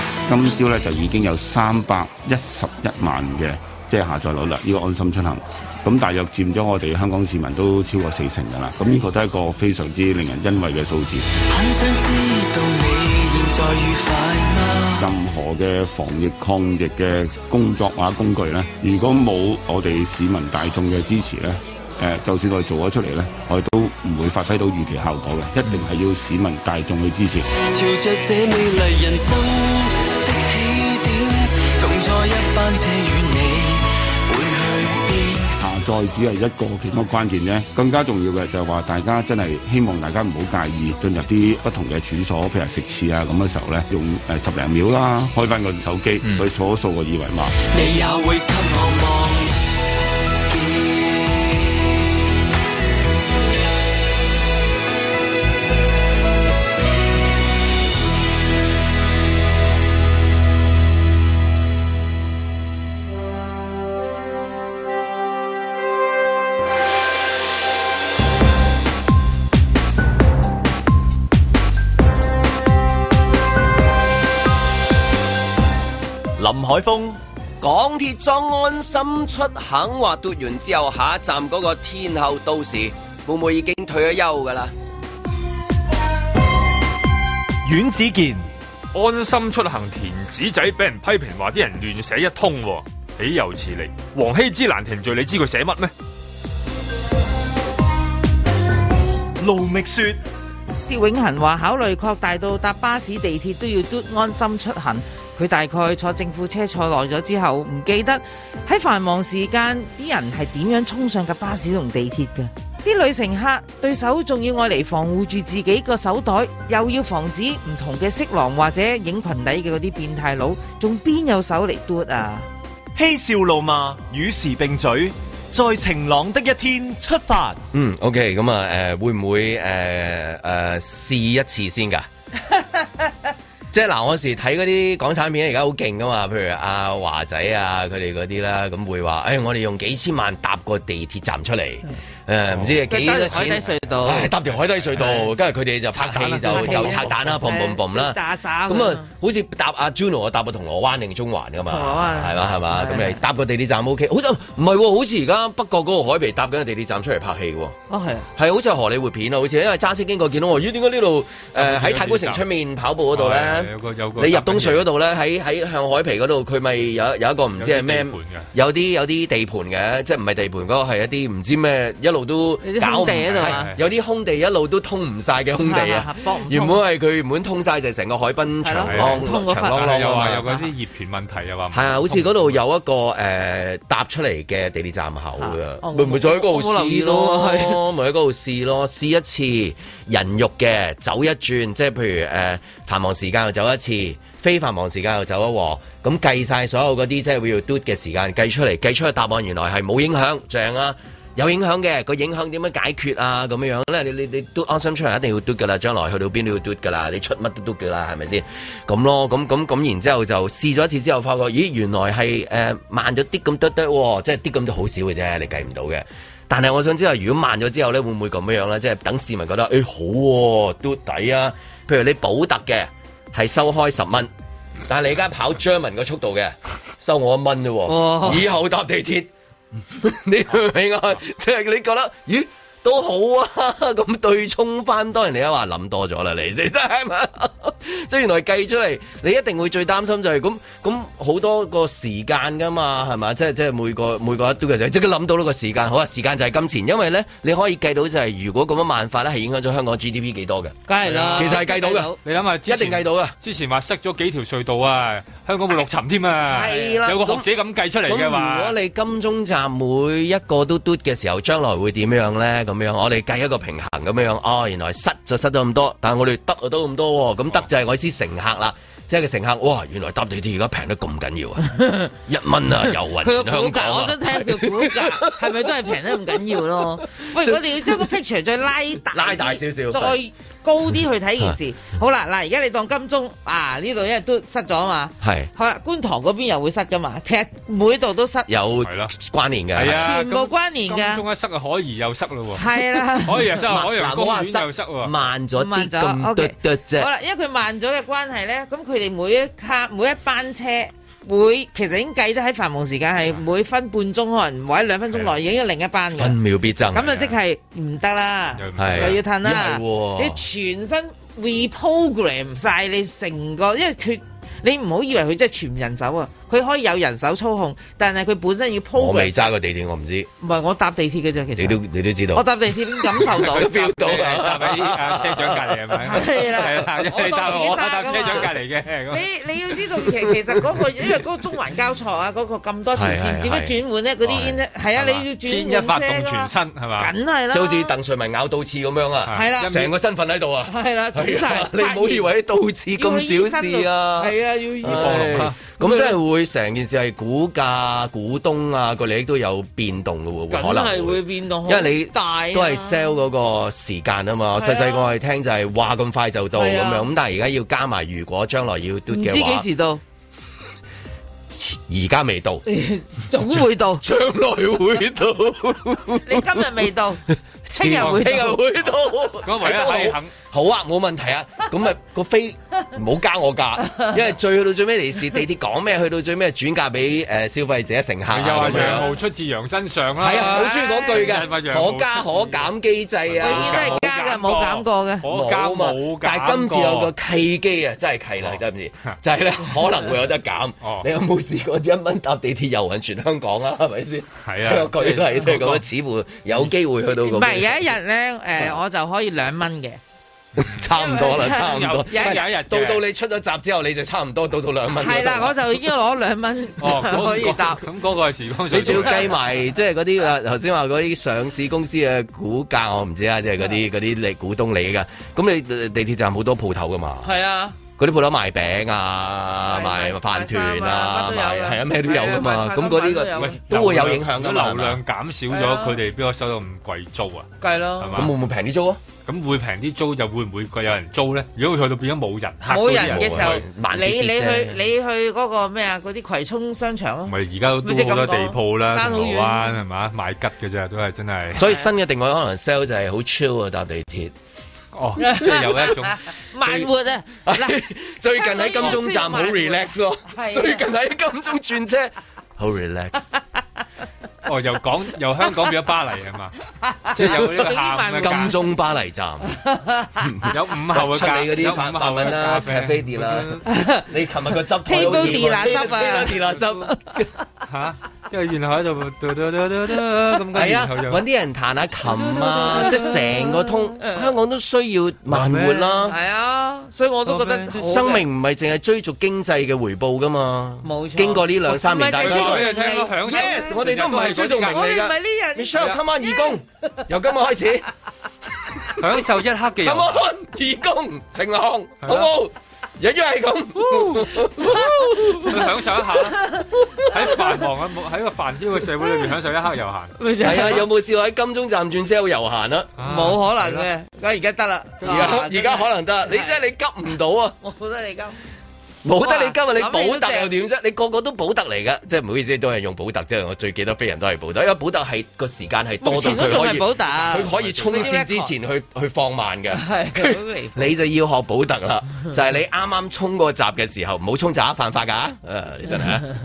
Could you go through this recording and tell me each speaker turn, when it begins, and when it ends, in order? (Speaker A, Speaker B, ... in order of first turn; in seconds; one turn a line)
Speaker A: 0.3-11.3
Speaker B: 0.3-1.1
Speaker B: 11.4-15.1
Speaker A: 15.0-27.5
Speaker B: 27.6-35.5
Speaker A: 35.6-47.5
Speaker B: 47.6-49.6
Speaker B: 50.5-51.7
Speaker C: 76.4-77.2
Speaker D: 77.6-84.7
Speaker C: 87.6-88.5
Speaker E: 88.9-95.9
Speaker C: 99.4-100.2
Speaker F: 100.8-122.5
Speaker C: 123.0-127.6
Speaker D: 127.7-132.1
Speaker D: 133.7-157.8
Speaker F: 142.9-144.3
Speaker F: 145.0-145.3
Speaker E: 145.9-147.2
Speaker F: 146.4-149.1
Speaker F: 151.7-153.2
Speaker F: 157.9-158.3
Speaker D: 158.4-180.5
Speaker E: 161.6-162.5
Speaker E: 163.1-164.9
Speaker E: 167.6-168.5
Speaker F: 172.6-173.7
Speaker E: 173.2-173.8
Speaker F: 175.6-176.8
Speaker F: 178.6-180.7
Speaker E: 178.9-182.6
Speaker D: 181.7-224.3
Speaker F: 185.4-187.8
Speaker D: 224.9-229.3
Speaker F: 227.9-228.5
Speaker D: 229.9-250.8
Speaker F: 250.9-252.2
Speaker E: 251.0-251.7
Speaker D: 251.3-253.4
Speaker E: 252.2-258.8
Speaker D: 256.5-257.5
Speaker F: 256.5-257.0
Speaker D: 258.0-275.9
Speaker F: 271.6-272.1
Speaker F: 273.2-288.5
Speaker D: 277.2-278.1
Speaker D: 279.1-280.2
Speaker D: 285.2-285.5
Speaker D: 288.5-290.1
Speaker E: 288.8-289.1
Speaker E: 289.7-295.1
Speaker F: 289.9-291.2
Speaker F: 292.6-293.5
Speaker D: 293.6-297.1
Speaker F: 295.6-306.4
Speaker D: 306.2-307.2
Speaker F: 306.9-319.5
Speaker E: 307.0-307.3
Speaker E: 308.6-309.2
Speaker D: 308.8-310.4
Speaker D: 318.9-320.3
Speaker F: 320.4-321.8
Speaker D: 321.6-326.7
Speaker F: 322.3-323.8
Speaker E: 323.2-329.3
Speaker F: 326.1-328.5
Speaker F: 329.1-337.9
Speaker D: 332.9-334.6
Speaker E: 334.9-337.1
Speaker D: 337.5-359.7
Speaker E: 339.3-339.9
Speaker F: 339.3-339.9
Speaker F: 340.7-342.3
Speaker F: 342.9-346.2
Speaker E: 344.8-345.6
Speaker F: 350.5-353.2
Speaker F: 354.6-355.1
Speaker F: 356.6-357.1
Speaker F: 359.1-360.0
Speaker D: 361.5-362.6
Speaker F: 362.7-364.0
Speaker D: 364.0-366.8
Speaker F: 366.2-368.6
Speaker D: 367.8-379.1
Speaker E: 367.8-370.3
Speaker F: 373.9-374.1
Speaker E: 378.3-382.7
Speaker F: 378.6-379.1
Speaker D: 380.2-384.1
Speaker F: 380.4-381.4
Speaker E: 383.3-387.1
Speaker F: 383.4-385.2
Speaker D: 385.2-397.9
Speaker E: 388.4-389.2
Speaker E: 390.8-391.1
Speaker E: 394.4-395.8
Speaker F: 397.2-400.0
Speaker D: 400.6-405.7
Speaker F: 400.9-402.4
Speaker E: 401.4-403.1
Speaker F: 405.0-407.8
Speaker E: 406.8-409.3
Speaker D: 408.7-417.3
Speaker F: 408.8-409.3
Speaker F: 417.2-417.8
Speaker D: 418.0-425.0
Speaker F: 419.7-423.6
Speaker E: 423.4-428.3
Speaker F: 425.5-426.0
Speaker F: 427.6-428.3
Speaker D: 428.1-429.0
Speaker E: 429.2-433.6
Speaker F: 432.6-439.8
Speaker D: 432.9-434.8
Speaker E: 437.3-441.7
Speaker D: 441.5-444.3
Speaker E: 444.9-446.2
Speaker F: 445.2-447.8
Speaker D: 446.6-446.9
Speaker D: 447.4-453.3
Speaker F: 448.4-450.9
Speaker E: 454.4-456.6
Speaker F: 456.8-458.6
Speaker E: 457.1-458.5
Speaker D: 457.2-459.5
Speaker F: 459.5-460.3
Speaker D: 460.2-467.3
Speaker E: 460.5-463.6
Speaker F: 463.7-464.1
Speaker F: 464.9-467.1
Speaker E: 464.9-465.7
Speaker E: 467.7-471.2
Speaker D: 470.5-476.2
Speaker F: 472.1-474.3
Speaker E: 475.3-475.6
Speaker F: 475.6-478.3
Speaker E: 477.3-477.7
Speaker D: 477.7-487.9
Speaker F: 480.8-483.8
Speaker E: 482.2-484.9
Speaker F: 484.5-485.9
Speaker E: 488.9-490.3
Speaker D: 489.8-495.7
Speaker E: 492.0-492.3
Speaker E: 493.8-494.4
Speaker E: 495.3-500.1
Speaker F: 496.4-496.7
Speaker F: 500.2-500.9
Speaker D: 500.4-502.9
Speaker E: 503.0-503.9
Speaker F: 503.0-506.6
Speaker E: 505.0-505.4
Speaker D: 505.1-507.6
Speaker F: 507.6-508.4
Speaker D: 509.0-526.3
Speaker F: 509.2-510.5
Speaker F: 516.0-518.5
Speaker E: 517.2-518.1
Speaker F: 519.7-520.9